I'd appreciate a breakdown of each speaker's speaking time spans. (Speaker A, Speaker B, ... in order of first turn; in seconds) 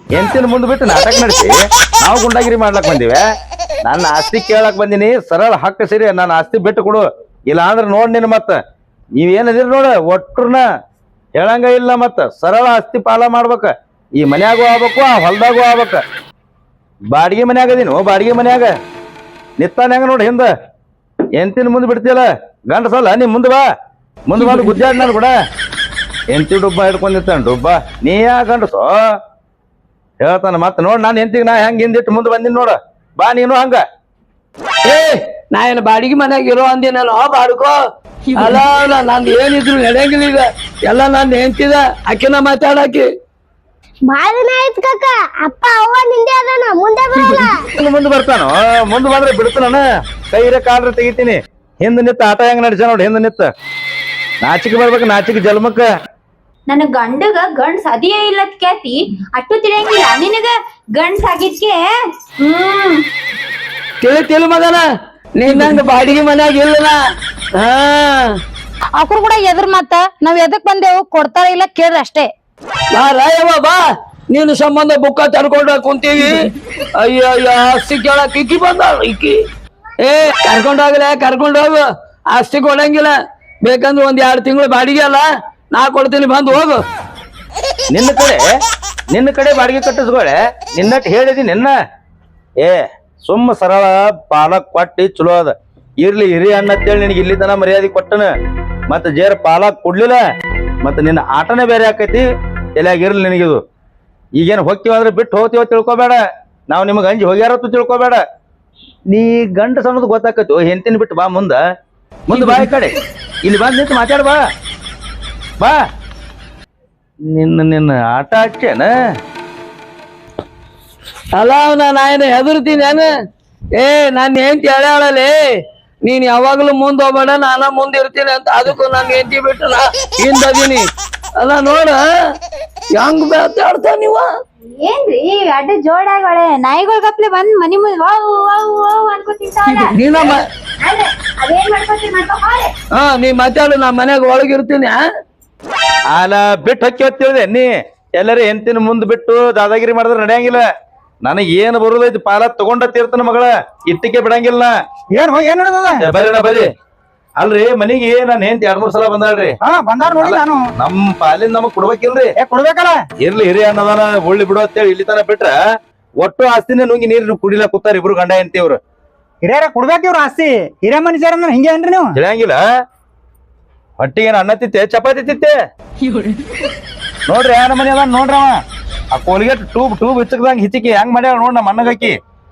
Speaker A: 0.1-3.2, 3.8-8.6, 9.2-10.6, 11.4-16.0, 17.1-18.7, 19.6-20.5, 21.4-23.6, 24.3-25.3, 26.3-28.9, 30.2-33.8, 47.8-53.5, 54.4-55.8, 87.9-88.4, 89.1-91.7, 92.6-98.3, 98.9-100.2, 100.8-102.2, 102.8-103.6, 104.4-108.2, 109.1-111.6, 112.3-114.4, 117.3-118.9, 146.1-147.7, 148.2-150.6, 151.2-154.7, 156.0-156.7, 157.4-159.5, 160.2-162.3, 163.2-165.5, 166.2-168.8, 172.2-172.6, 174.0-175.5, 177.3-178.6, 179.1-182.1
Speaker B: 24.4-24.8, 34.9-37.8, 38.3-43.1, 64.0-64.8, 65.4-67.0, 67.5-68.3, 72.9-79.4, 80.0-86.8, 121.3-123.1, 123.8-125.4, 126.0-132.0, 132.9-134.3, 139.9-140.4, 142.9-145.0
Speaker C: 44.1-47.6
Speaker D: 56.7-63.0, 134.8-142.7
Speaker E: 69.0-72.3
Speaker F: 155.1-156.1, 159.6-160.6, 162.4-163.0, 169.4-172.2